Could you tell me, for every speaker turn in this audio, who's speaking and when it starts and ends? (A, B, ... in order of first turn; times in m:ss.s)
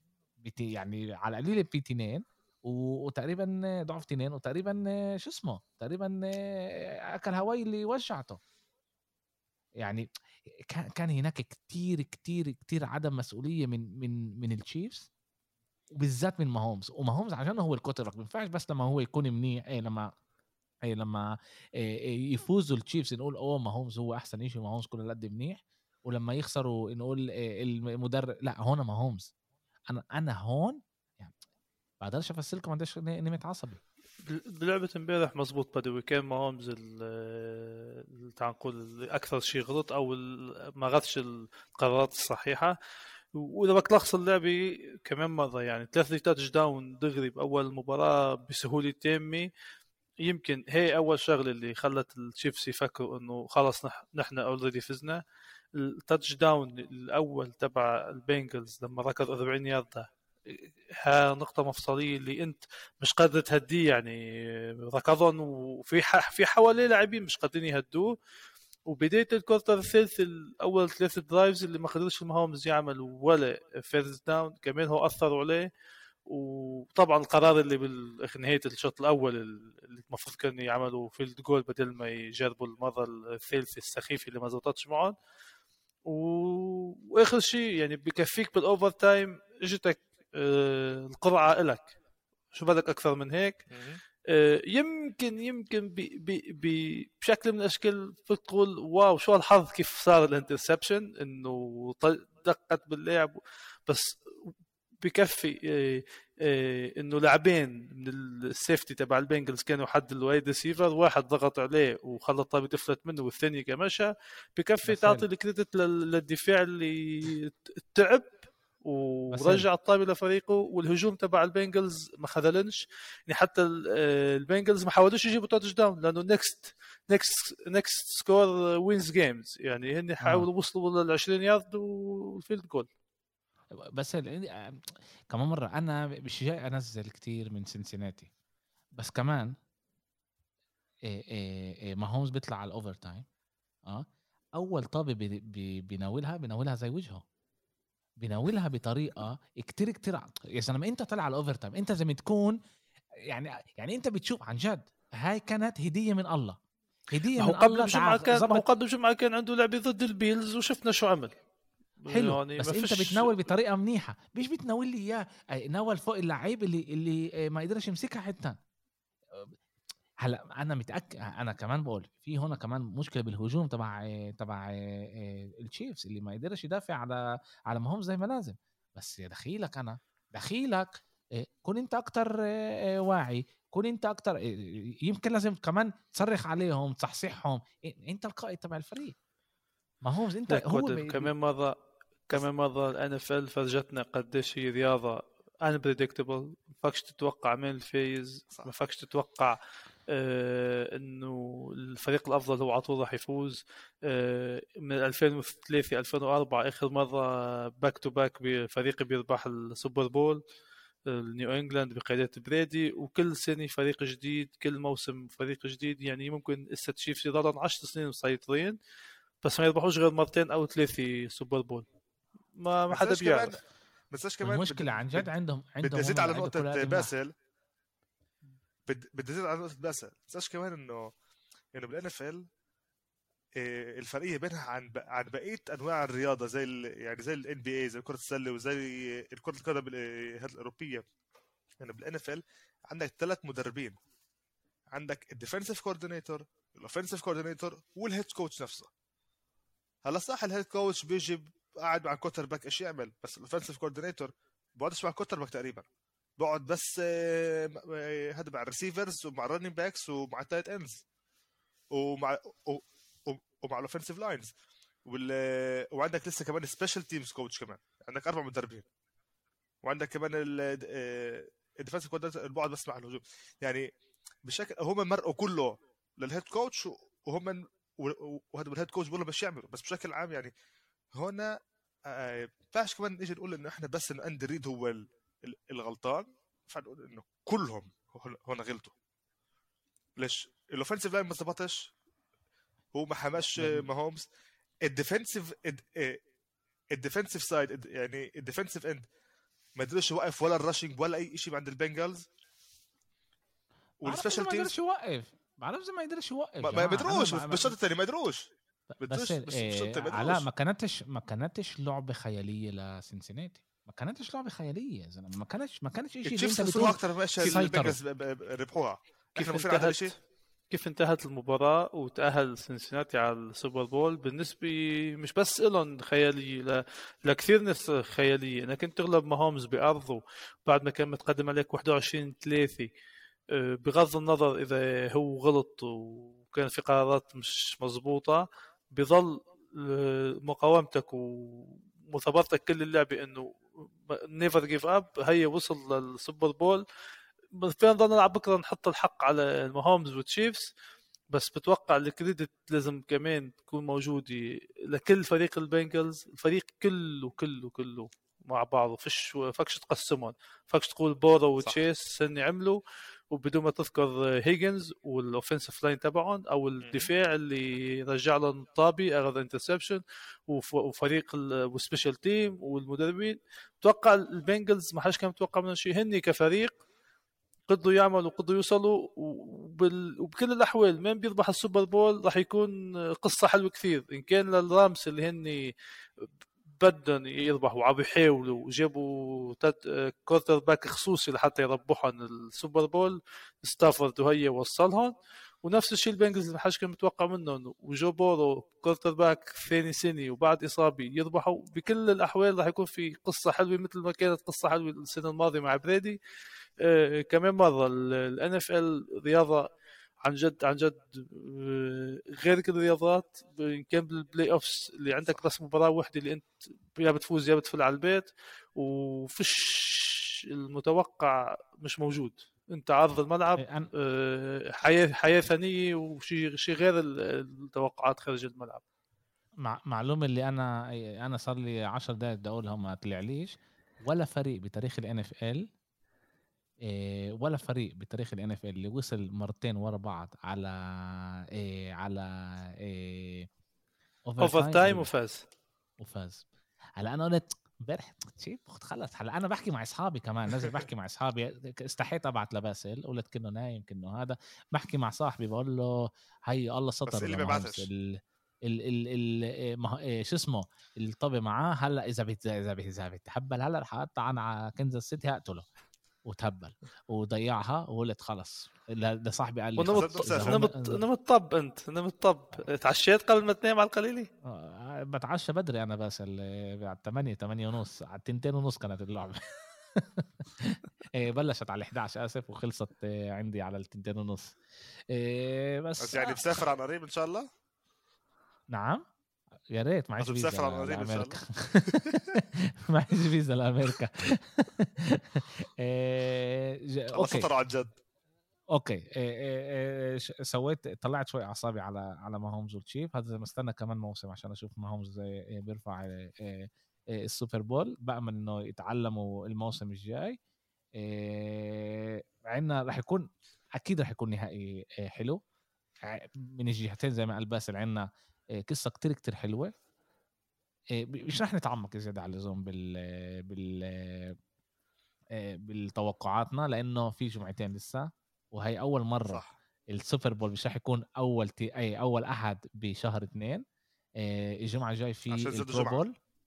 0:00.4-0:08.4 A
0:09.8-0:10.1 A
0:10.6-0:15.1 A
0:16.0-0:20.1 A
0:20.9-0:29.3 A
0:29.9-0:31.3 A
0:32.0-0:33.8 A
0:34.3-0:42.8 B
0:43.4-0:49.5 B
0:50.2-0:55.2 B
0:55.8-1:08.2 B
1:08.9-1:15.7 B
1:16.3-1:25.2 B
1:26.1-1:32.0 B
1:32.5-1:33.7 B
1:33.7-1:34.0 C
1:34.3-1:44.5 B
1:45.0-2:12.9 B
1:54.9-1:55.3 A
1:59.3-1:59.7 A
2:10.2-2:10.5 A
2:14.0-2:18.3 A
2:19.0-2:19.5 A
2:21.1-2:23.3 A
2:23.9-2:27.2 A
2:28.2-2:32.6 A
2:33.3-2:36.6 A
2:37.1-2:38.6 A
2:37.4-2:41.4 B
2:42.0-2:43.4 B
2:42.1-2:48.6 A
2:50.2-3:09.2 A
3:10.0-3:11.3 A
3:10.5-3:11.8 B
3:12.3-3:19.6 B
3:20.1-3:30.4 B
3:31.1-3:38.8 B
3:39.4-3:41.9 B
3:42.5-3:43.6 B
3:42.9-3:43.6 C
3:44.1-3:45.3 C
3:44.4-3:47.1 A
3:45.8-3:47.3 C
3:48.9-3:51.1 C
3:51.8-3:52.5 C
3:53.6-4:01.0 C
4:01.8-4:04.0 C
4:04.9-4:08.9 C
4:10.0-4:15.8 C
4:16.4-4:21.0 C
4:21.9-4:24.5 C
4:25.1-4:28.8 C
4:29.8-4:33.9 C
4:34.4-4:40.5 C
4:41.1-4:48.9 C
4:50.2-4:51.9 C
4:52.9-4:54.3 C
4:53.6-4:53.9 A
4:54.8-4:56.2 C
4:56.9-4:59.0 C
4:59.8-5:02.3 C
5:04.0-5:04.7 C
5:04.1-5:07.8 A
5:06.6-5:08.5 C
5:09.0-5:18.0 A
5:09.0-5:10.4 C
5:16.3-5:20.1 C
5:19.4-5:20.2 B
5:20.7-5:32.9 B
5:33.5-5:46.8 B
5:47.6-5:50.7 B
5:51.3-6:02.8 B
6:03.3-6:16.8 B
6:06.8-6:07.1 C
6:17.7-6:46.2 B
6:46.8-6:49.7 B
6:50.2-7:08.8 B
7:03.6-7:03.9 A
7:09.6-7:15.7 A
7:16.8-7:23.5 A
7:24.3-7:25.1 A
7:24.4-7:25.5 B
7:26.0-7:26.5 A
7:27.0-7:45.6 A
7:37.1-7:37.9 C
7:46.2-7:51.0 A
7:49.8-7:54.3 B
7:49.9-7:50.7 C
7:54.4-8:04.6 A
8:05.1-8:06.7 A
8:06.0-8:07.5 C
8:08.7-8:09.0 A
8:09.7-8:17.5 A
8:10.2-8:11.4 C
8:11.9-8:12.2 C
8:17.1-8:18.0 C
8:18.7-8:30.4 A
8:31.0-8:35.4 A
8:36.0-8:39.7 A
8:41.0-8:44.4 A
8:45.4-8:53.6 A
8:54.2-8:56.2 A
8:55.3-8:56.1 C